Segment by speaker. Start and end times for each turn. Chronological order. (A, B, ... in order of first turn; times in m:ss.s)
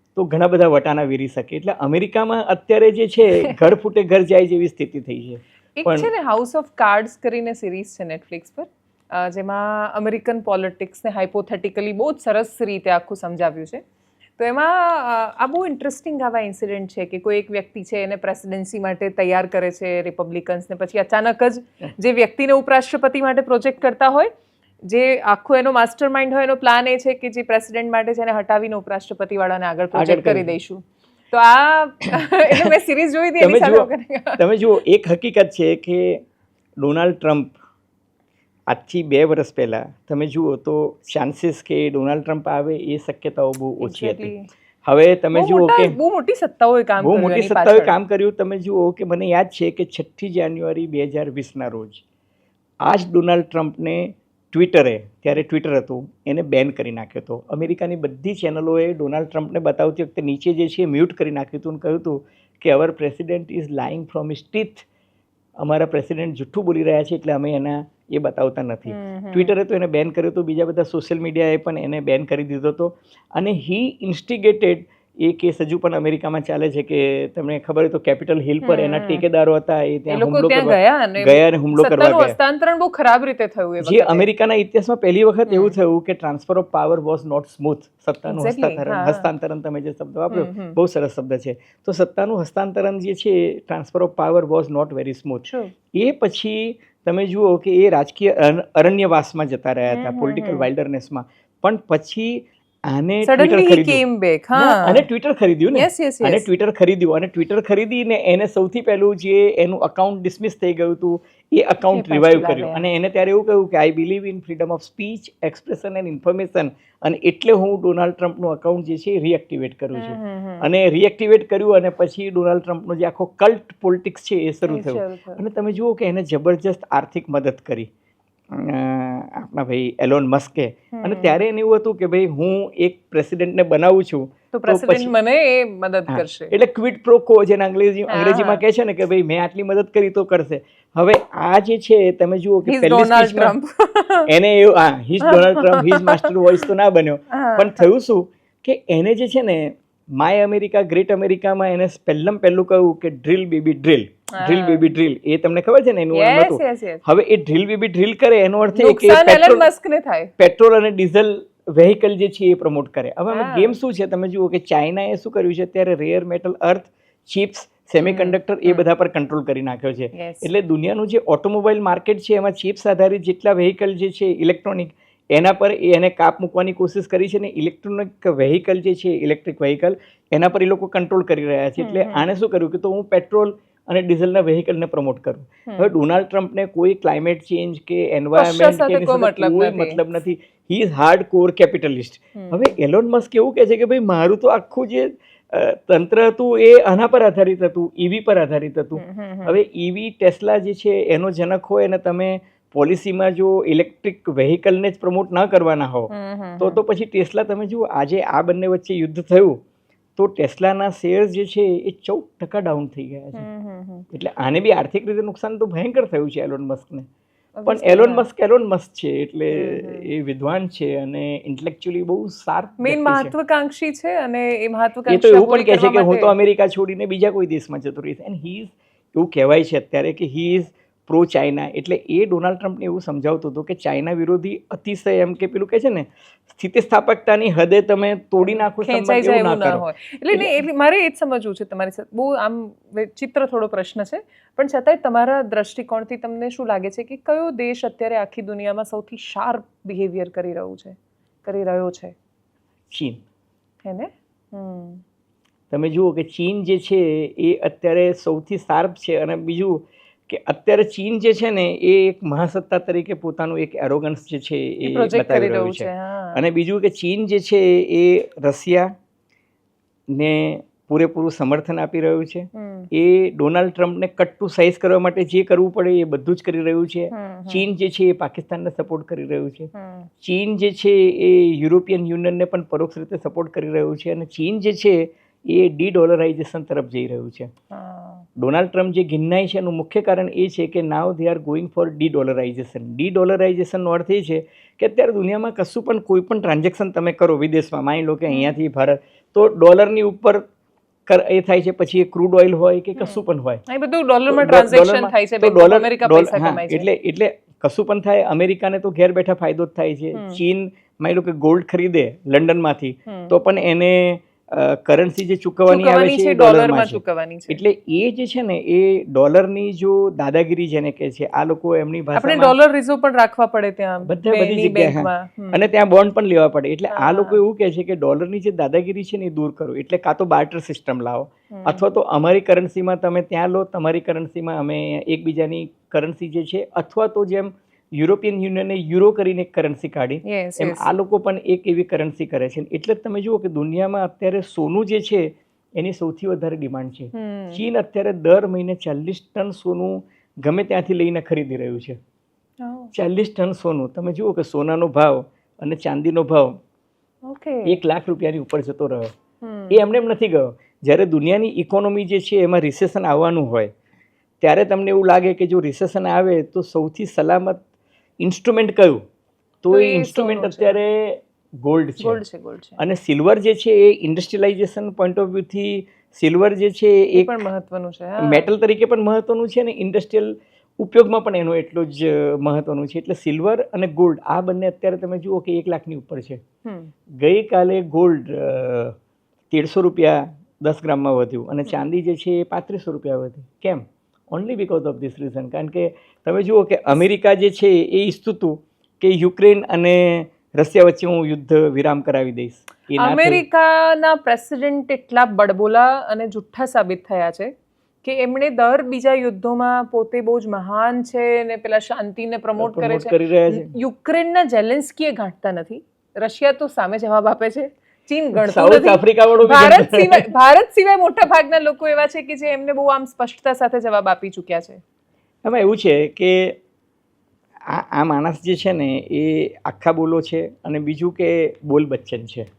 0:00.2-0:06.1 A
0:05.8-0:13.8 B
0:14.4-0:24.3 B
0:24.9-0:34.4 B
0:29.9-0:30.6 A
0:33.4-0:36.2 A
0:36.8-0:37.5 A
0:38.7-0:44.3 A
0:43.8-0:44.5 B
0:44.8-0:46.0 A
0:45.3-0:48.0 B
0:47.0-0:52.0 A
0:52.8-1:04.9 A
1:05.6-1:22.4 A
1:08.9-1:09.5 B
1:18.6-1:19.2 B
1:20.1-1:24.3 B
1:23.8-1:44.0 A
1:25.5-1:25.8 B
1:28.3-1:29.3 B
1:30.3-1:30.8 B
1:35.4-1:35.7 B
1:39.9-1:40.7 B
1:43.2-1:45.1 B
1:44.6-2:07.9 A
1:45.7-1:46.5 B
1:51.8-1:52.8 B
2:00.0-2:00.7 B
2:04.7-2:05.4 B
2:08.5-2:15.1 A
2:10.9-2:11.4 B
2:14.5-2:16.5 B
2:16.1-2:23.6 A
2:18.1-2:18.6 B
2:22.6-2:24.3 B
2:24.3-2:39.7 A
2:25.2-2:26.7 B
2:27.3-2:27.9 B
2:34.3-2:34.8 B
2:36.1-2:37.0 B
2:38.8-2:40.3 B
2:40.4-3:29.6 A
2:43.3-2:43.7 B
2:48.0-2:48.9 B
2:50.1-2:50.5 B
3:01.8-3:02.3 B
3:08.4-3:10.0 B
3:12.4-3:12.7 B
3:19.0-3:19.6 B
3:26.1-3:26.8 B
3:30.2-3:33.5 A
3:33.4-3:34.1 B
3:34.1-3:37.1 A
3:37.6-3:38.3 B
3:37.7-3:43.3 A
3:39.5-3:40.1 B
3:42.8-3:46.4 B
3:45.1-4:00.6 A
3:58.4-4:12.2 B
4:12.9-4:13.2 A
4:13.8-4:15.0 B
4:15.7-4:28.9 A
4:24.8-4:26.4 B
4:30.1-4:47.5 A
4:32.5-4:32.9 B
4:37.1-4:37.7 B
4:39.7-4:40.1 B
4:47.7-4:48.2 B
4:48.4-5:00.4 A
4:58.3-4:58.6 B
5:01.1-5:03.6 A
5:03.0-5:06.9 B
5:04.3-5:22.6 A
5:10.1-5:10.4 B
5:13.1-5:13.3 B
5:15.7-5:17.6 B
5:22.2-5:25.6 B
5:24.1-5:52.0 A
5:26.9-5:27.4 B
5:31.5-5:31.8 B
5:40.2-5:40.9 B
5:47.1-5:47.6 B
5:52.6-5:52.9 B
5:52.9-5:56.5 A
5:57.3-5:57.8 B
5:57.6-5:59.1 A
5:59.4-5:59.8 B
5:59.7-6:03.7 A
6:04.4-6:07.6 A
6:08.2-6:09.0 A
6:09.6-6:12.2 A
6:09.7-6:10.8 B
6:12.0-6:12.8 B
6:12.8-6:17.4 A
6:17.2-6:18.5 B
6:18.2-6:26.4 A
6:26.6-6:26.9 B
6:27.2-6:29.0 A
6:29.5-6:43.4 A
6:43.0-6:47.5 B
6:48.0-7:04.8 B
6:52.6-6:53.7 A
6:58.4-7:00.2 A
7:05.4-7:06.6 A
7:07.7-7:12.5 A